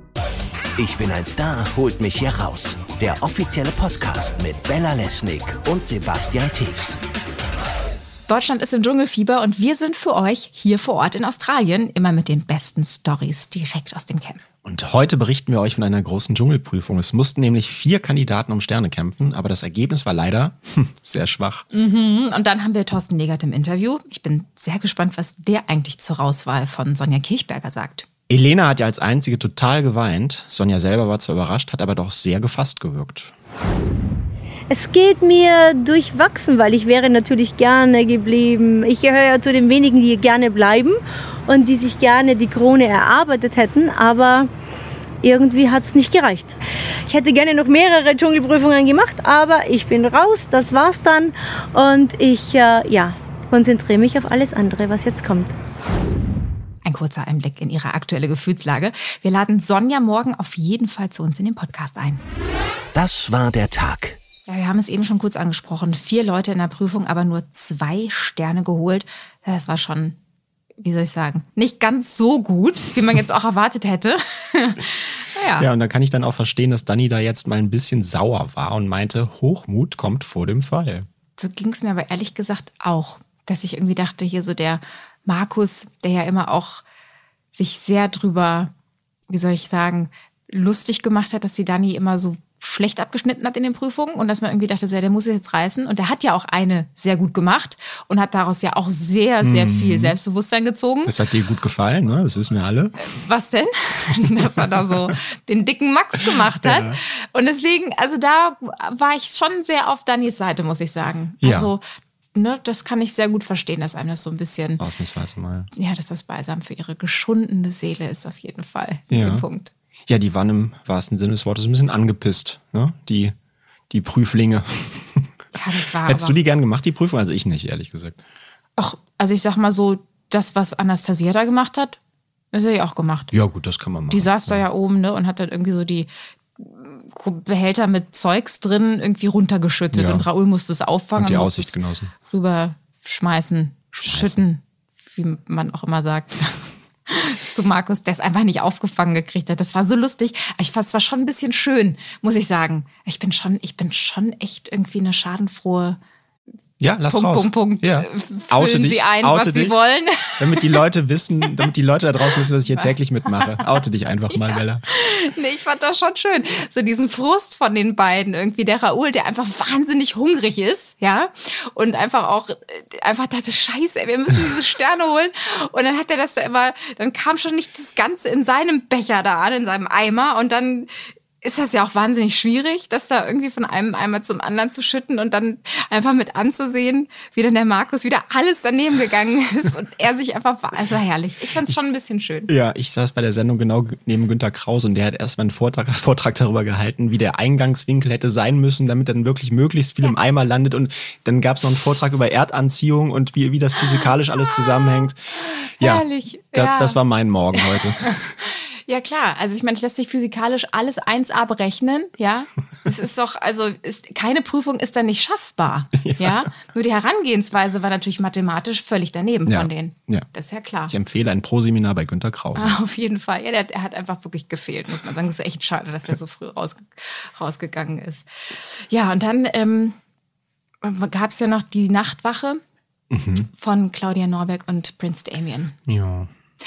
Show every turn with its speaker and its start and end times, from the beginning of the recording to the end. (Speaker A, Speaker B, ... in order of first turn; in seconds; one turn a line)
Speaker A: 0.8-7.0
Speaker B: 8.3-14.4
Speaker C: 14.6-21.6
Speaker B: 21.7-28.1
Speaker C: 28.3-33.3
Speaker D: 34.7-44.5
Speaker D: 45.2-55.5
Speaker B: 56.8-62.2
Speaker A: 62.9-64.1
Speaker B: 64.5-70.2
Speaker B: 70.8-75.7
Speaker C: 75.5-81.1
Speaker B: 81.3-86.8
Speaker B: 87.5-88.7
Speaker B: 89.3-101.1
Speaker C: 99.4-100.2
Speaker C: 101.0-103.0
Speaker B: 103.0-111.8
Speaker C: 106.6-107.0
Speaker C: 111.4-111.7
Speaker B: 112.3-114.8
Speaker C: 114.8-115.7
Speaker B: 115.7-119.7
Speaker C: 119.1-119.5
Speaker C: 120.1-123.3
Speaker C: 123.9-125.3
Speaker B: 125.5-126.4
Speaker C: 126.0-128.2
Speaker B: 128.8-132.0
Speaker B: 132.5-133.3
Speaker C: 133.3-134.6
Speaker B: 134.1-141.8
Speaker C: 139.9-140.2
Speaker C: 141.2-142.1
Speaker B: 142.3-156.0
Speaker C: 144.0-144.4
Speaker C: 156.8-159.8
Speaker B: 157.1-160.8
Speaker C: 160.4-164.8
Speaker B: 162.7-162.9
Speaker B: 164.9-192.5
Speaker C: 192.5-208.3
Speaker B: 205.8-207.0
Speaker B: 207.6-220.9
Speaker C: 216.0-216.4
Speaker C: 219.5-220.3
Speaker C: 220.9-222.8
Speaker B: 222.5-230.0
Speaker B: 230.8-232.6
Speaker C: 233.1-233.5
Speaker B: 233.5-235.8
Speaker C: 235.9-236.3